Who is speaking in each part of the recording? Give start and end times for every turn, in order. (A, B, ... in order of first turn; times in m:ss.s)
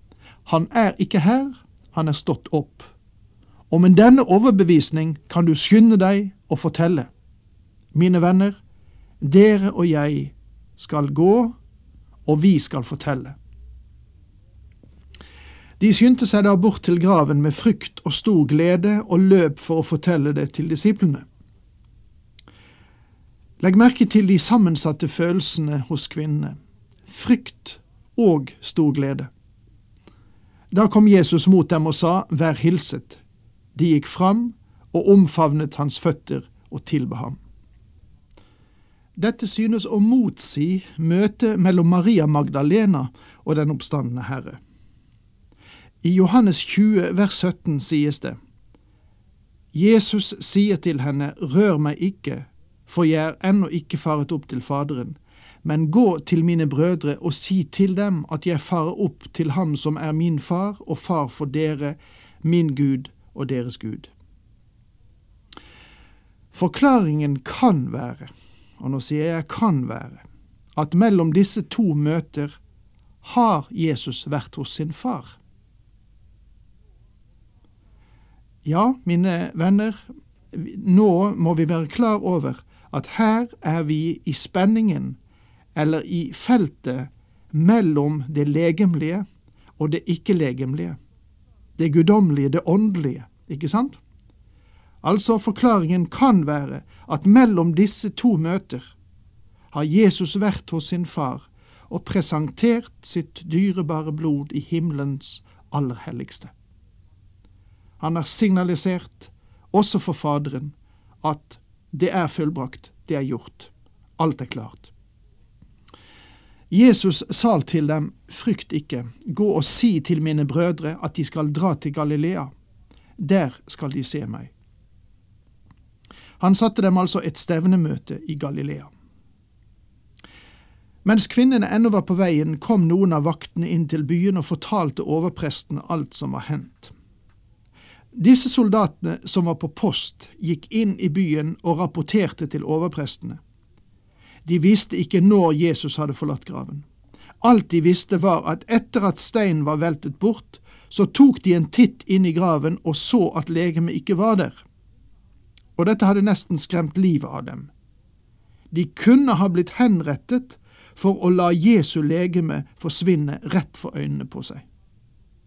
0:00.5-0:02.9 A
0:03.7-0:07.1 A
0:07.9-0:08.6 A
0:09.2-0:11.6 A
0:12.3-0:13.4 A
0:15.8-0:21.3 A
0:23.6-0:29.3 A
0:30.7-0:33.2 A
0:33.8-0:37.4 A
0:39.2-0:44.6 A
0:46.0-0:48.4 A
0:49.7-1:04.1 A
1:06.5-1:12.6 A
1:13.2-1:15.4 A
1:18.6-1:25.2 A
1:25.8-1:29.3 A
1:29.8-1:31.0 A
1:31.8-1:34.0 A
1:35.0-1:38.9 A
1:39.7-1:46.5 A
1:48.0-1:54.9 A
1:56.7-2:02.5 A
2:03.2-2:04.5 A
2:06.4-2:08.9 A
2:11.0-2:16.9 A
2:18.1-2:23.4 A
2:24.4-2:26.8 A
2:27.4-2:34.6 A
2:35.8-2:37.7 A
2:38.7-2:44.6 A